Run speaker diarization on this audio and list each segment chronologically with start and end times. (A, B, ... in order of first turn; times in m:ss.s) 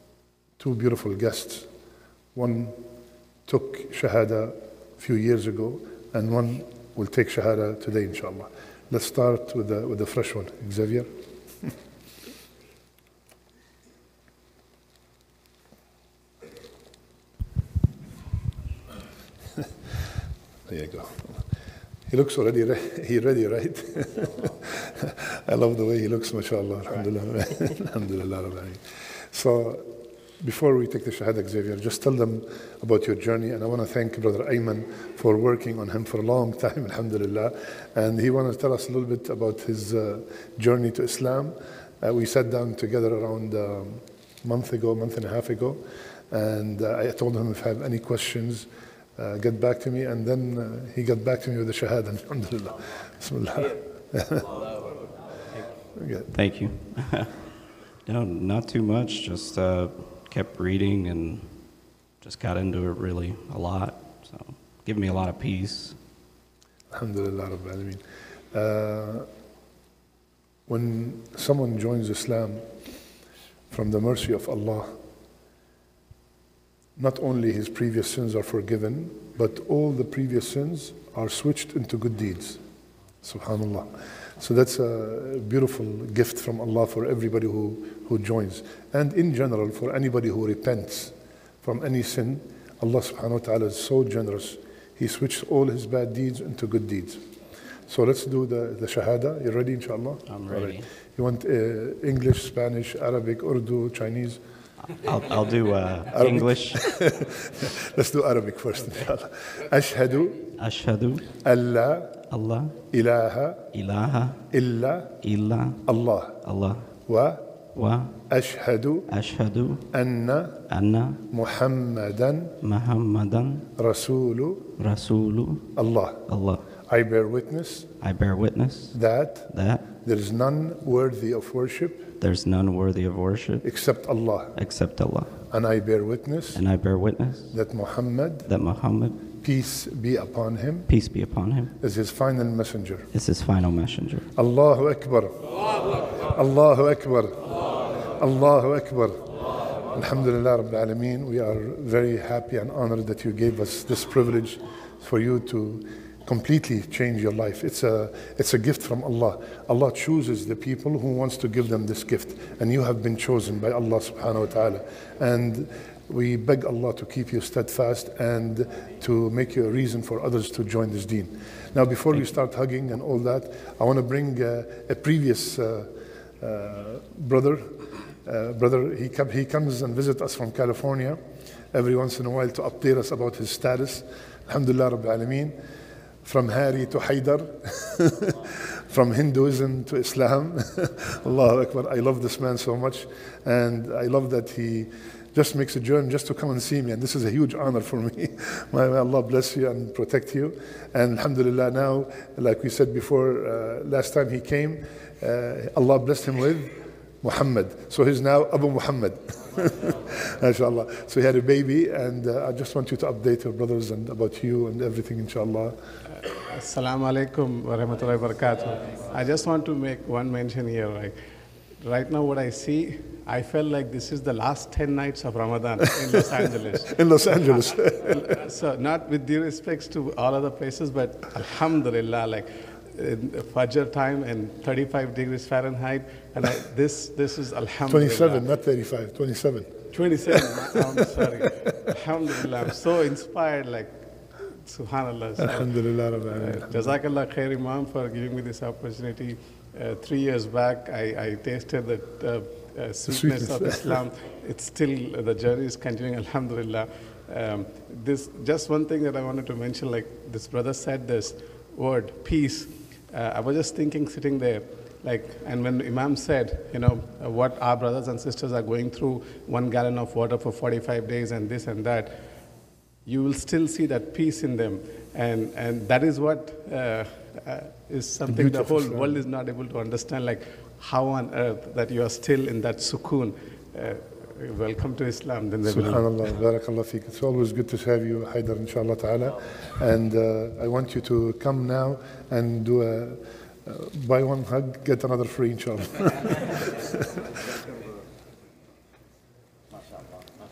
0:00.6-0:01.7 A
0:02.3-0:02.8 A
0:03.4-0:11.1 A
0:20.7-0:21.4 A
0:22.1-0:29.8 A
0:30.4-0:54.5 A
0:55.9-0:56.3 A
0:56.3-0:57.3 B
0:58.0-1:01.5 B
1:02.2-1:06.0 B
1:06.9-1:08.0 A
1:08.5-1:09.3 A
1:10.7-1:12.7 A
1:13.7-1:14.9 A
1:17.0-1:22.6 A
1:23.2-1:37.2 A
1:37.9-1:44.4 A
1:40.3-1:40.9 B
1:44.9-1:46.8 B
1:46.1-1:50.4 A
1:50.6-1:51.2 B
1:51.4-1:52.1 A
1:52.3-1:52.7 B
1:52.9-1:53.7 A
1:53.7-1:54.4 B
1:54.5-1:55.1 A
1:55.2-1:55.8 B
1:55.8-1:56.4 A
1:56.4-1:56.9 B
1:57.1-1:57.4 A
1:57.7-1:58.1 B
1:58.3-1:59.1 A
1:59.1-1:59.8 B
1:59.9-2:00.6 A
2:00.7-2:01.2 B
2:01.3-2:02.6 A
2:02.6-2:03.6 B
2:03.8-2:04.7 A
2:04.8-2:05.7 B
2:05.8-2:06.3 A
2:06.2-2:06.6 B
2:06.8-2:07.9 A
2:08.0-2:09.0 B
2:08.9-2:12.1 A
2:09.5-2:09.8 B
2:12.2-2:13.6 B
2:13.6-2:14.5 A
2:14.5-2:15.3 B
2:15.5-2:16.6 A
2:16.5-2:17.5 B
2:17.5-2:18.5 A
2:18.4-2:19.2 B
2:19.4-2:20.9 A
2:20.9-2:21.7 B
2:21.8-2:23.1 A
2:23.1-2:24.3 B
2:24.3-2:25.4 A
2:26.2-2:27.5 A
2:28.1-2:29.3 A
2:29.9-2:55.9 A
2:56.4-2:57.7 A
2:58.2-3:01.2 A
3:01.7-3:05.5 A
3:06.2-3:35.8 A
3:36.4-3:41.2 C
3:41.8-3:58.4 C
3:46.9-3:48.4 A
3:57.9-4:01.2 A
3:59.9-4:32.2 C
4:05.4-4:07.0 A
4:13.1-4:14.0 A
4:33.0-4:46.1 C
4:38.3-4:39.2 A
4:45.6-4:57.1 A